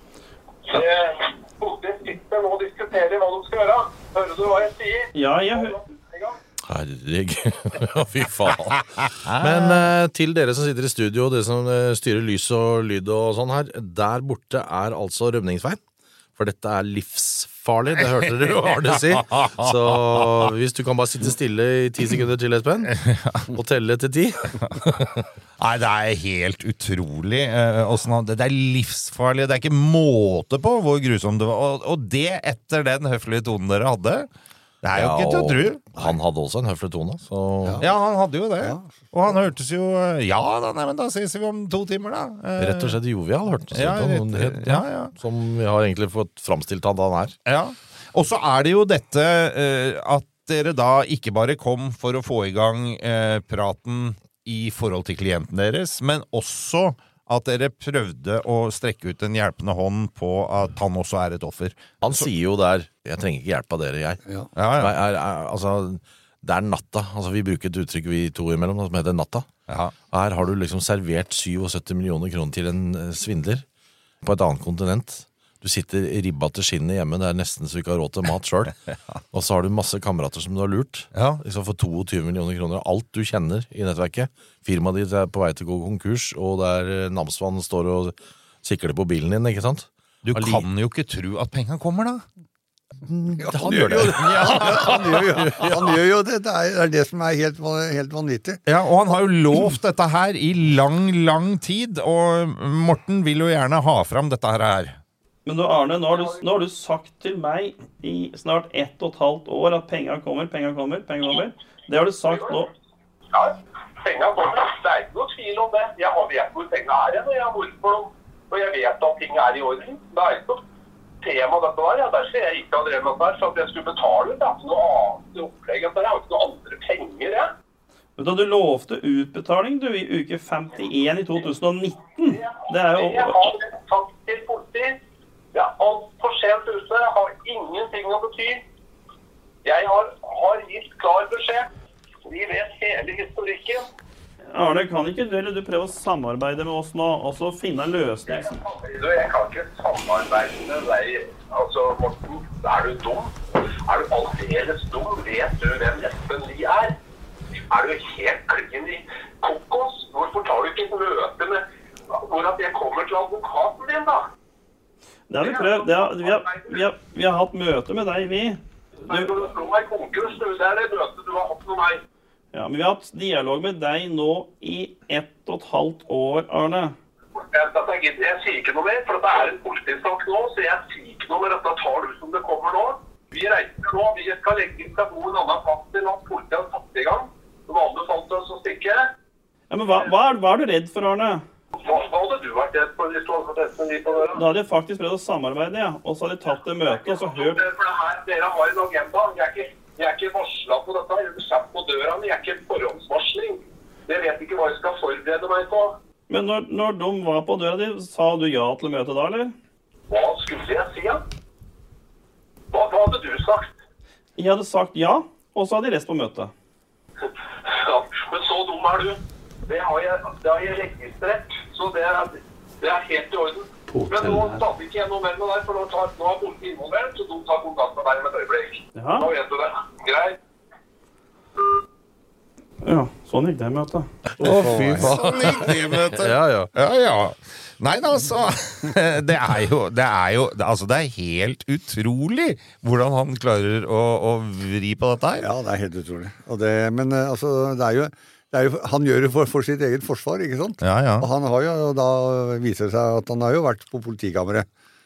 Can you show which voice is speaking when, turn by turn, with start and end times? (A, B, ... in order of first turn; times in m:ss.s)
0:00.7-0:06.4 A
0:05.2-0:05.8 B
0:06.7-0:15.8 C
0:09.1-0:09.9 D
0:16.4-0:23.0 C
0:18.9-0:20.2 D
0:22.9-0:23.5 D
0:23.5-0:25.3 C
0:25.6-0:34.3 D
0:34.8-0:36.1 D
0:35.0-0:37.8 C
0:37.8-0:43.0 D
0:38.6-0:38.9 E
0:42.6-0:47.4 C
0:43.7-0:45.1 D
0:47.5-1:02.3 D
1:02.0-1:04.2 C
1:04.6-1:05.0 D
1:04.8-1:09.5 C
1:09.7-1:09.9 D
1:10.1-1:13.6 C
1:14.2-1:18.8 C
1:19.3-1:30.7 C
1:21.1-1:21.4 D
1:30.2-1:32.2 D
1:33.1-1:35.8 C
1:33.4-1:38.6 E
1:33.7-1:35.2 D
1:38.7-1:45.0 D
1:45.5-1:52.7 B
1:46.1-1:46.4 A
1:52.3-1:52.6 A
1:53.3-2:00.6 A
2:01.2-2:07.5 A
2:08.2-2:13.4 B
2:12.2-2:15.0 A
2:15.5-2:18.6 A
2:19.6-2:21.7 A
2:22.2-2:23.9 A
2:24.5-2:28.6 B
2:28.3-2:36.9 A
2:37.7-2:44.3 A
2:45.3-2:49.4 B
2:45.4-2:46.8 A
2:49.1-2:52.0 A
2:52.5-2:57.0 B
2:57.4-3:09.1 A
3:09.7-3:11.4 B
3:11.8-3:14.4 A
3:14.3-3:17.6 B
3:16.9-3:26.0 A
3:26.3-3:29.5 B
3:30.1-3:31.2 A
3:32.7-3:33.7 A
3:34.4-3:36.5 B
3:37.2-3:50.4 A
3:49.0-3:49.3 B
3:52.8-3:54.1 B
3:54.4-3:56.7 C
3:54.4-3:55.2 E
3:54.5-4:05.5 D
4:05.4-4:14.7 E
4:10.8-4:11.3 D